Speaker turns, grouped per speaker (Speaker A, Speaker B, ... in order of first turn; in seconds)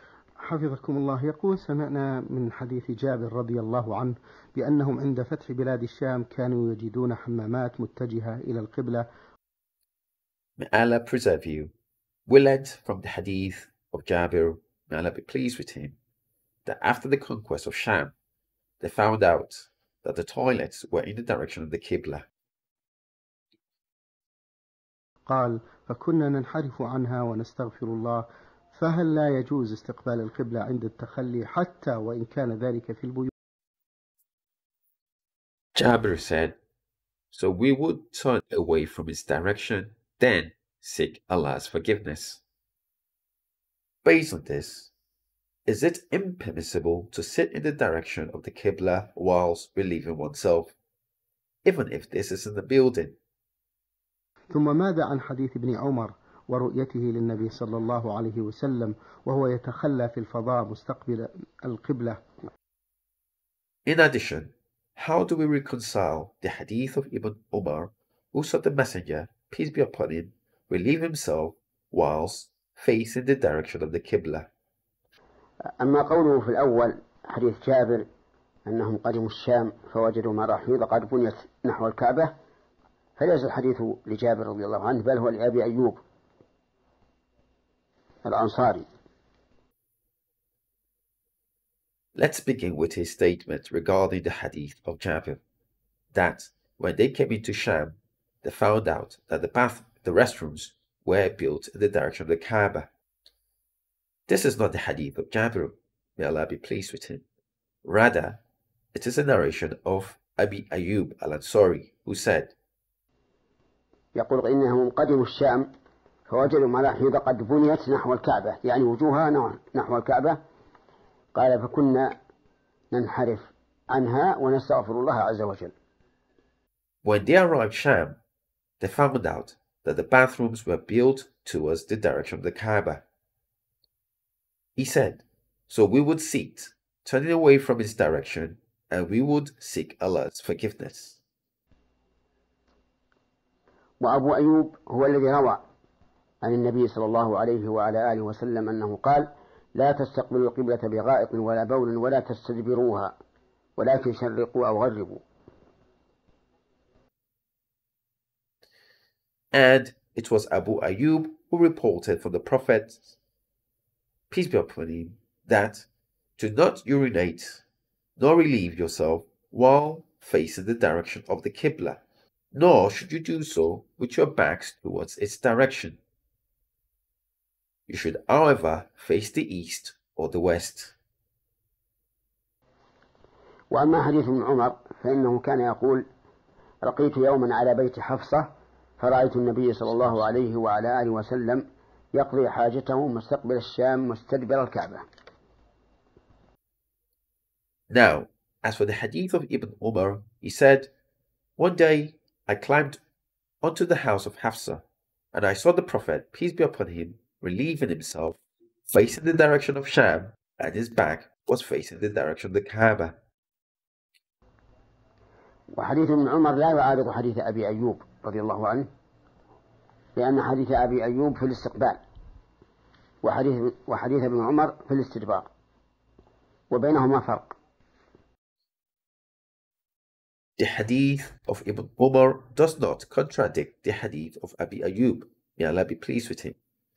Speaker A: 0.4-9.0, 25.3-33.3, 54.5-62.2
Speaker B: 10.6-11.7, 12.3-16.0, 16.6-18.1, 18.8-22.2, 35.7-36.5, 37.3-42.4, 44.0-44.9, 45.7-50.7, 51.6-53.1, 63.9-74.5, 92.2-95.4, 96.1-102.9, 104.3-107.2, 107.8-108.4, 108.9-112.5, 127.0-128.2, 128.8-133.0, 134.8-141.2, 159.5-163.2, 164.3-165.9, 166.4-167.6, 168.2-172.0, 172.5-176.0, 177.9-180.9, 197.9-200.9, 201.6-203.0, 203.6-213.2, 230.6-236.6
Speaker C: 75.8-78.0, 78.7-82.3, 83.2-86.0, 88.2-88.9, 114.1-115.7, 116.3-120.4, 121.3-122.2, 122.9-125.7, 144.0-145.6, 146.4-153.1, 153.8-155.2, 183.7-186.0, 186.8-195.0, 215.7-218.9, 220.2-222.0, 223.2-225.5, 226.7-227.5